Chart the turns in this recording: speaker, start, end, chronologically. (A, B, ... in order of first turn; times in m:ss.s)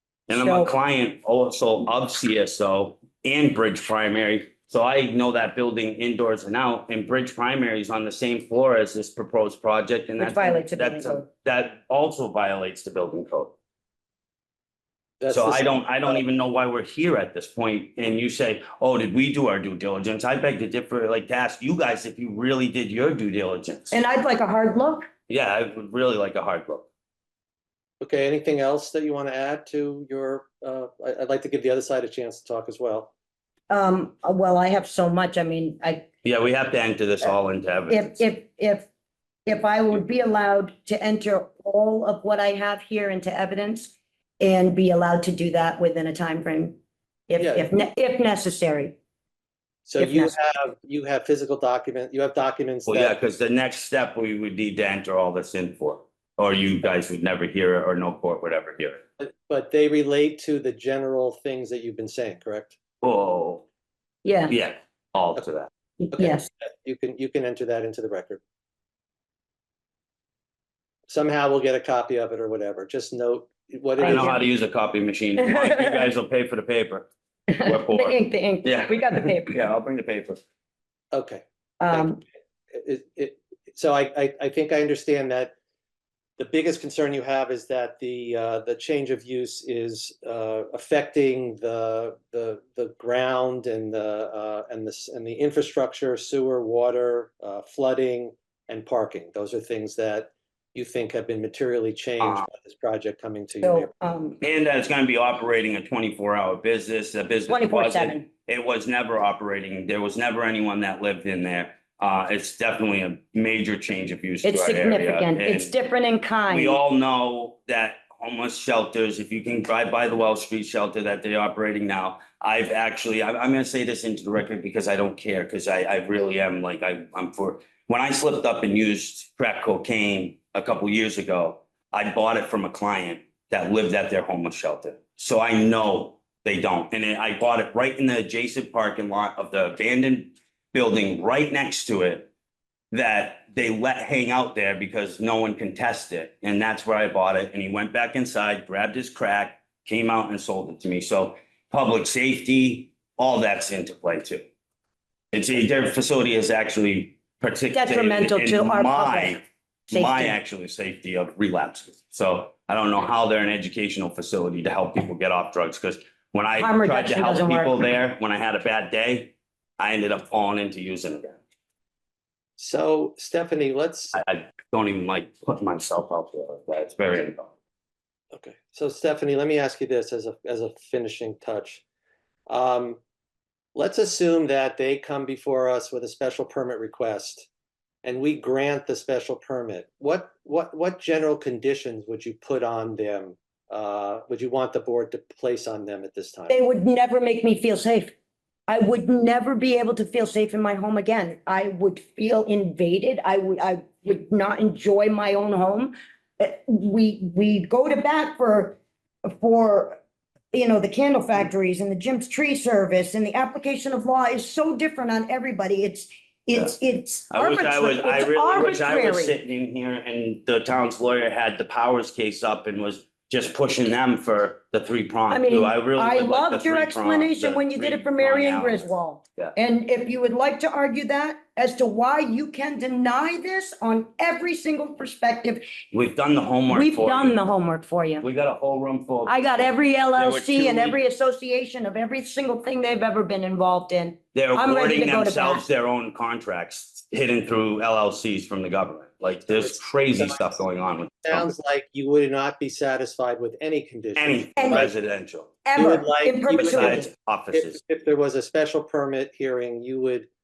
0:00.3-0:13.5 A
0:00.3-0:00.7 B
0:10.2-0:11.3 B
0:15.2-0:16.2 C
0:15.3-0:24.0 A
0:23.9-0:25.1 B
0:25.3-0:26.9 A
0:28.0-0:33.1 C
0:33.7-0:36.1 B
0:36.2-0:38.2 A
0:37.9-0:38.9 B
0:39.4-0:49.0 B
0:47.4-0:47.7 C
0:49.9-0:53.2 C
0:50.0-0:50.3 B
0:52.8-0:59.0 A
0:59.2-1:02.8 C
1:03.0-1:03.6 A
1:04.2-1:04.6 B
1:04.5-1:05.7 A
1:06.0-1:06.5 B
1:06.1-1:08.4 C
1:11.1-1:14.4 C
1:14.0-1:14.4 B
1:14.1-1:17.1 A
1:15.4-1:16.1 B
1:17.5-1:19.5 B
1:17.6-1:20.4 A
1:21.1-1:22.1 C
1:21.8-1:22.2 B
1:22.7-1:25.5 C
1:26.4-1:43.9 C
1:42.2-1:42.5 A
1:43.6-1:44.4 B
1:44.4-1:55.7 A
1:47.5-1:48.2 B
1:54.4-1:56.8 B
1:56.5-2:22.3 A
2:22.9-2:34.4 A
2:35.3-2:51.4 A
2:37.7-2:40.4 B
2:46.6-2:47.8 B
2:52.6-2:54.2 C
2:54.1-2:57.5 A
2:58.3-3:01.8 C
3:02.5-3:03.0 C
3:03.7-3:07.5 C
3:08.0-3:16.6 C
3:16.5-3:18.1 B
3:18.7-3:30.0 B
3:30.5-3:39.4 B
3:37.3-3:49.5 A
3:45.3-3:55.6 B
3:55.9-3:57.4 A
3:56.7-3:58.2 B
3:58.2-4:01.0 A
3:59.2-4:05.6 B
4:04.3-4:11.5 A
4:09.6-4:10.5 C
4:11.3-4:14.9 C
4:14.2-4:15.5 A
4:14.6-4:14.9 B
4:15.6-4:17.1 B
4:15.8-4:20.3 C
4:16.6-4:17.8 A